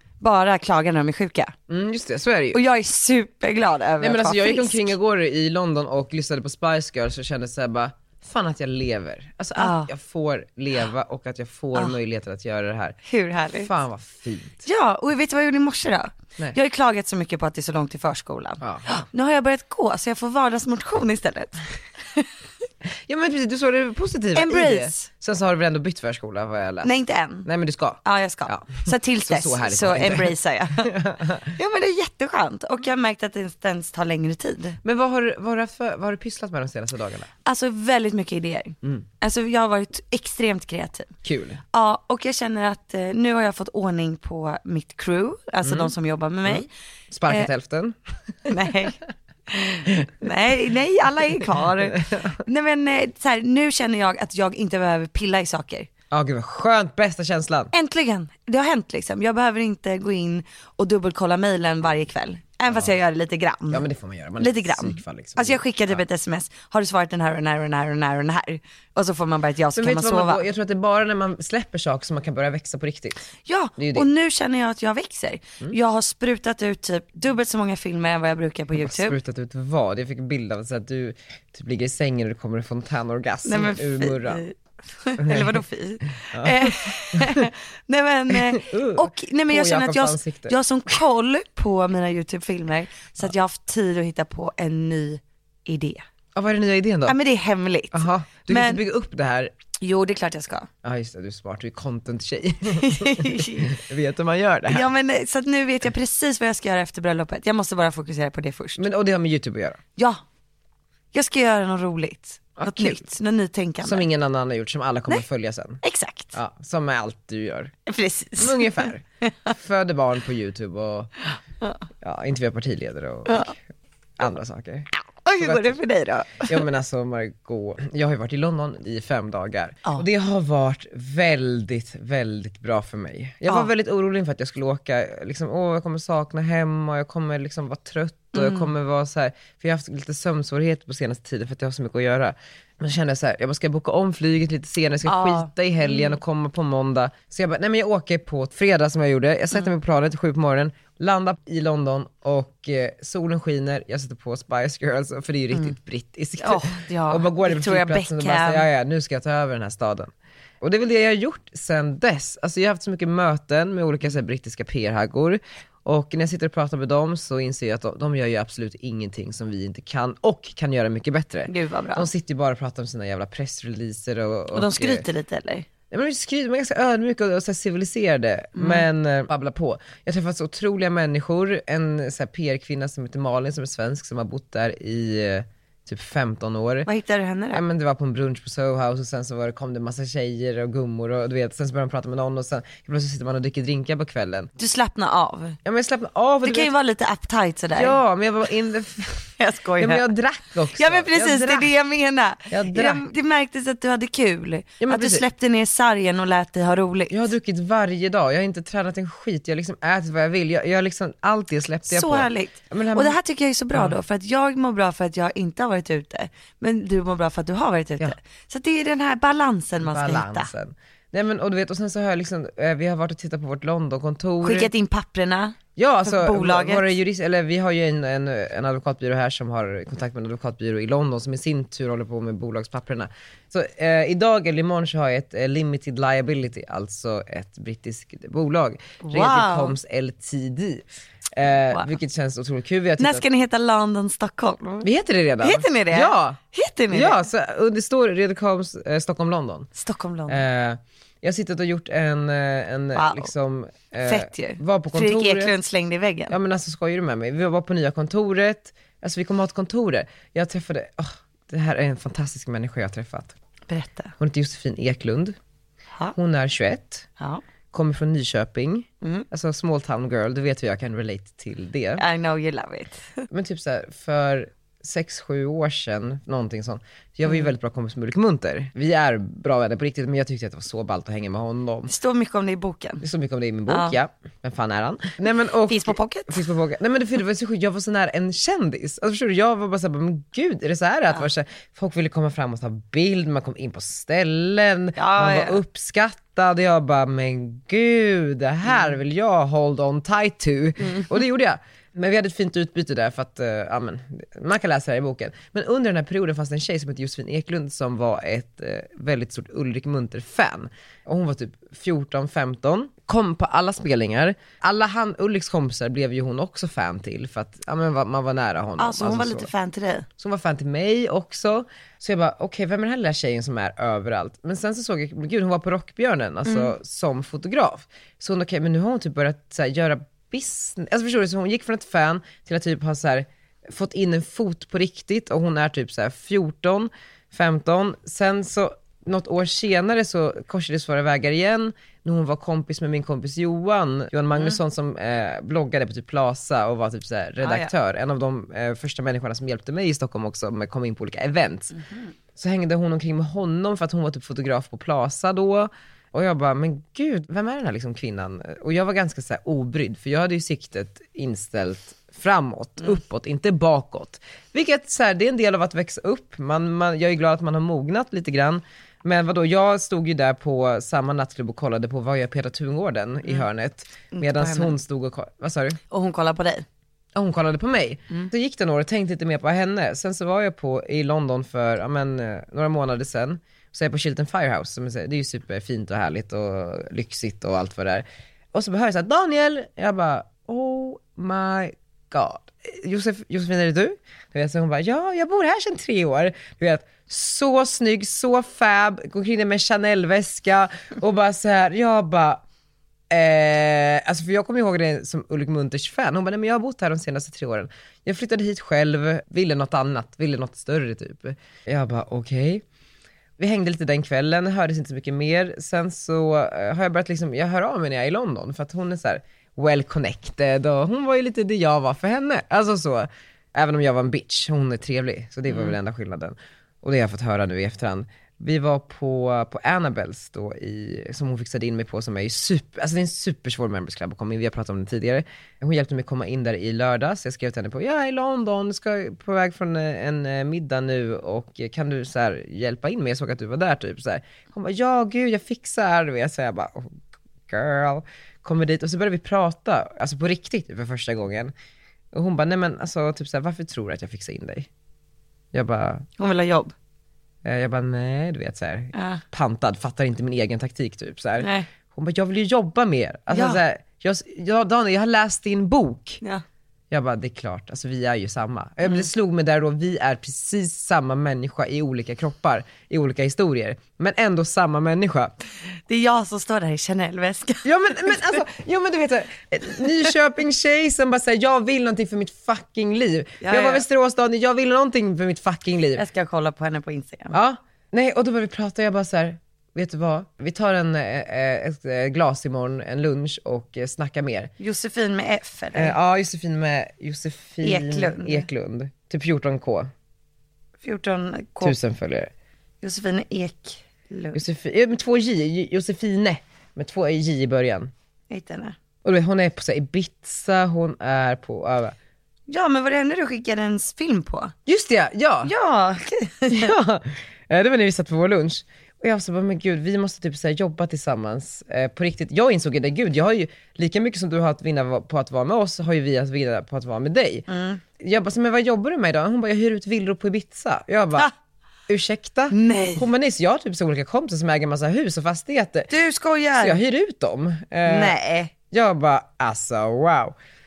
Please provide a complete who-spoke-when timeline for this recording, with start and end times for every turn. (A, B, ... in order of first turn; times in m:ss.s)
0:00.2-0:01.5 A
0:01.7-0:02.6 B
0:02.5-0:04.9 A
0:04.0-0:13.0 B
0:09.6-0:09.9 A
0:13.0-0:13.7 A
0:13.5-0:14.7 B
0:14.6-0:21.6 A
0:18.6-0:18.9 B
0:23.1-0:26.9 B
0:24.4-0:25.1 A
0:26.8-0:27.5 A
0:27.4-0:31.5 B
0:28.0-0:30.9 A
0:31.5-0:34.8 A
0:34.8-0:37.3 B
0:37.4-0:41.1 A
0:41.2-0:41.6 B
0:41.7-0:46.7 A
0:45.6-0:45.9 B
0:46.5-0:48.0 B
0:48.5-0:49.0 A
0:49.5-0:55.9 A
0:51.8-0:52.3 B
0:56.1-0:57.7 B
0:57.7-1:03.9 A
1:03.7-1:06.0 B
1:04.4-1:10.4 A
1:09.8-1:13.2 B
1:13.5-1:19.2 A
1:13.8-1:14.1 B
1:18.8-1:24.4 B
1:23.4-1:36.0 A
1:25.2-1:25.6 B
1:26.3-1:27.4 B
1:28.3-1:30.6 B
1:36.4-1:37.2 B
1:37.1-1:38.8 A
1:37.9-1:39.5 B
1:39.8-1:40.7 A
1:40.8-1:44.9 B
1:42.8-1:43.8 A
1:44.7-1:48.8 A
1:48.8-1:49.8 B
1:50.0-1:50.2 A
1:51.1-1:54.1 A
1:52.6-1:53.1 B
1:53.8-1:55.8 B
1:55.8-1:56.3 A
1:56.3-1:57.8 B
1:57.9-1:59.5 A
1:58.4-2:01.1 B
2:02.0-2:03.6 B
2:03.3-2:03.5 A
2:04.2-2:05.8 B
2:05.0-2:06.6 A
2:06.4-2:55.0 B
2:18.3-2:18.7 A
2:25.0-2:26.2 A
2:36.4-2:38.7 A
2:51.5-2:52.1 A
2:54.5-2:55.7 A
2:55.9-3:06.9 B
2:58.6-2:58.9 A
3:06.9-3:07.6 A
3:07.5-3:14.5 B
3:14.6-3:15.6 A
3:15.6-3:16.7 B
3:16.4-3:18.0 A
3:17.8-3:21.7 B
3:19.4-3:20.1 A
3:20.8-3:27.2 A
3:22.5-3:23.0 B
3:24.8-3:25.2 B
3:27.1-3:33.2 B
3:31.9-3:40.5 A
3:39.8-3:44.7 B
3:44.4-3:47.0 A
3:45.8-4:03.2 B
3:59.0-3:59.8 A
4:03.0-4:04.9 A
4:04.8-4:06.4 B
4:05.4-4:07.2 A
4:06.9-4:09.7 B
4:09.8-4:10.4 A
4:10.3-4:15.6 B
4:13.0-4:13.3 A
4:14.0-4:16.4 A
4:16.3-4:23.4 B
4:23.7-4:24.2 A
4:24.2-4:25.4 B
4:26.2-4:27.1 B
4:27.7-4:32.0 B
4:32.0-4:33.2 A
4:33.3-4:41.9 B
4:41.9-4:43.0 A
4:43.0-5:19.5 B
4:43.7-4:44.0 A
4:45.7-4:46.4 A
4:55.0-4:55.6 A
5:00.8-5:01.2 A
5:18.8-5:20.1 A
5:20.2-5:51.7 B
5:47.4-5:47.7 A
5:51.7-5:52.1 A
5:52.4-6:15.8 B
6:14.1-6:14.8 A
6:15.9-6:16.6 A
6:17.2-6:42.4 B
6:43.1-6:52.6 B
6:53.4-7:31.5 B
7:05.5-7:05.8 A
7:32.1-7:34.7 B
7:35.5-7:36.1 B
7:36.2-7:36.7 A
7:37.4-7:46.2 B
7:38.9-7:39.2 A
7:41.4-7:41.7 A
7:43.3-7:43.6 A
7:46.9-7:55.3 B
7:55.9-7:58.2 A
7:57.6-8:06.0 B
8:03.4-8:03.8 A
8:06.0-8:07.4 A
8:07.3-8:14.5 B
8:14.6-8:16.0 A
8:15.7-8:19.9 B
8:17.6-8:18.5 A
8:20.8-8:21.8 A
8:21.6-8:22.3 B
8:22.8-8:24.4 A
8:24.3-8:27.9 B
8:28.3-8:28.8 A
8:29.0-8:32.0 B
8:32.5-8:34.5 A
8:34.7-8:35.5 B
8:35.4-8:36.7 A
8:36.5-8:47.5 B
8:47.5-8:47.8 A
8:48.0-8:51.3 B
8:51.9-8:55.9 B
8:52.5-8:53.1 A
8:55.9-8:56.8 A
8:56.6-8:58.2 B
8:57.8-8:58.5 A
8:58.7-9:00.4 B